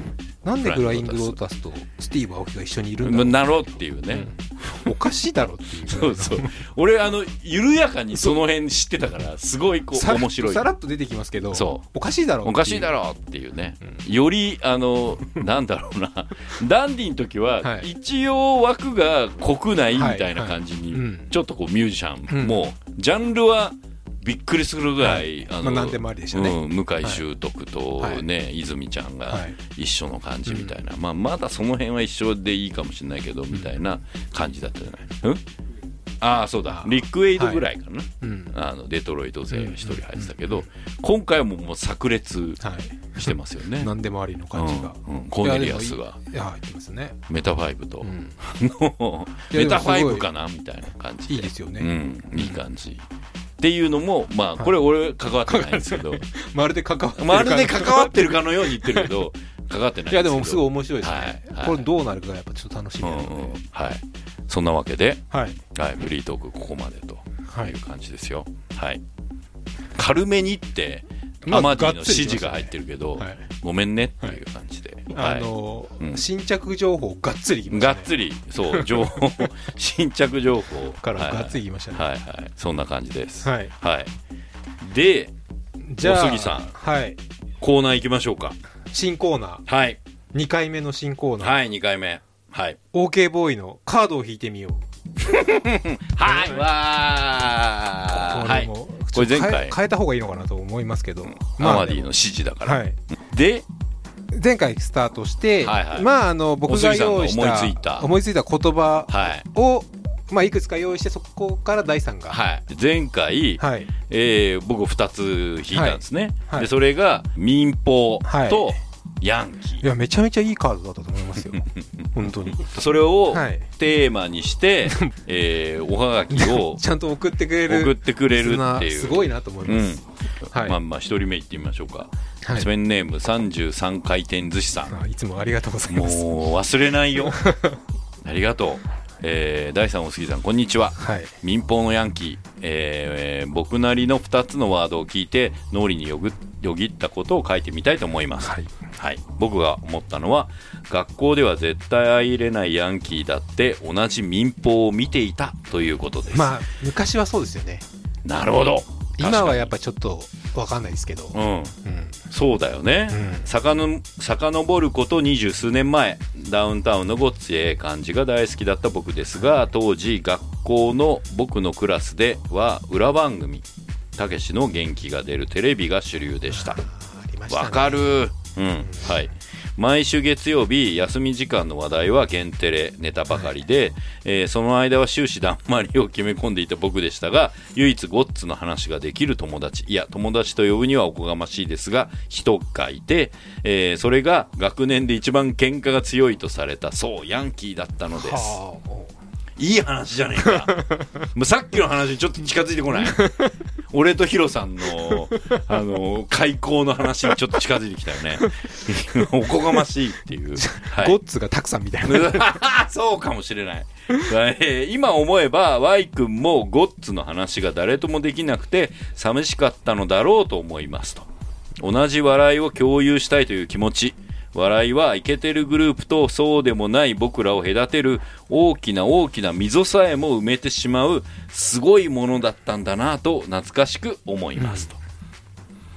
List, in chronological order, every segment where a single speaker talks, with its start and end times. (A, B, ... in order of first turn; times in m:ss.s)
0:00.4-0:03.5 A
0:00.6-0:01.4 B
0:03.0-0:04.9 B
0:04.1-0:06.6 A
0:05.8-0:10.7 B
0:09.9-0:12.9 A
0:11.5-0:11.8 B
0:12.4-0:35.4 B
0:17.6-0:17.9 A
0:19.9-0:21.3 A
0:22.3-0:22.6 A
0:25.0-0:27.2 A
0:28.0-0:28.2 A
0:29.3-0:29.6 A
0:30.5-0:30.7 A
0:36.2-0:42.6 B
0:36.7-0:37.6 A
0:38.2-0:38.6 A
0:39.5-0:40.6 A
0:42.6-0:47.2 A
0:43.2-0:43.9 B
0:44.5-0:46.2 B
0:47.3-0:53.0 B
0:48.0-0:48.4 A
0:49.5-0:50.3 A
0:51.3-0:52.6 A
0:53.6-0:56.2 B
0:55.4-0:59.1 A
0:57.2-1:01.8 B
1:00.1-1:03.6 A
1:03.0-1:09.0 B
1:05.3-1:05.6 A
1:07.5-1:07.7 A
1:09.9-1:16.2 B
1:11.4-1:13.4 A
1:15.1-1:18.1 A
1:17.7-1:24.1 B
1:18.7-1:19.4 A
1:21.0-1:22.0 A
1:23.4-1:23.7 A
1:24.8-1:25.3 B
1:25.9-1:27.2 A
1:26.0-1:26.7 B
1:27.6-1:28.6 B
1:28.9-1:29.6 A
1:29.7-1:30.0 B
1:30.3-1:31.6 A
1:31.4-1:32.8 B
1:32.9-1:34.8 A
1:35.2-1:39.7 B
1:36.2-1:36.6 A
1:38.0-1:42.1 A
1:41.5-1:43.6 B
1:42.6-1:43.0 A
1:44.3-1:52.4 A
1:45.6-1:46.1 B
1:46.6-1:48.1 B
1:49.1-1:49.4 B
1:52.3-1:59.8 B
1:53.6-1:53.9 A
1:55.7-1:56.7 A
1:58.2-1:58.8 A
1:59.8-2:02.7 A
2:01.5-2:06.8 B
2:03.3-2:03.7 A
2:04.9-2:05.1 A
2:06.3-2:10.0 A
2:07.6-2:15.0 B
2:10.5-2:10.8 A
2:12.4-2:12.7 A
2:14.9-2:16.3 A
2:15.9-2:17.4 B
2:17.3-2:17.8 A
2:18.2-2:36.5 B
2:21.0-2:21.3 A
2:28.4-2:28.7 A
2:36.3-2:37.8 A
2:38.2-2:39.7 B
2:39.2-2:42.2 A
2:41.3-2:41.7 B
2:42.3-2:53.6 B
2:43.1-2:43.5 A
2:54.2-2:56.8 B
2:56.5-2:58.2 A
2:57.5-3:18.6 B
3:18.1-3:19.1 A
3:19.6-3:23.3 B
3:20.5-3:21.1 A
3:23.0-3:23.5 A
3:23.9-3:31.2 B
3:30.6-3:32.6 A
3:32.0-3:41.3 B
3:41.8-3:55.0 B
3:54.6-3:54.9 A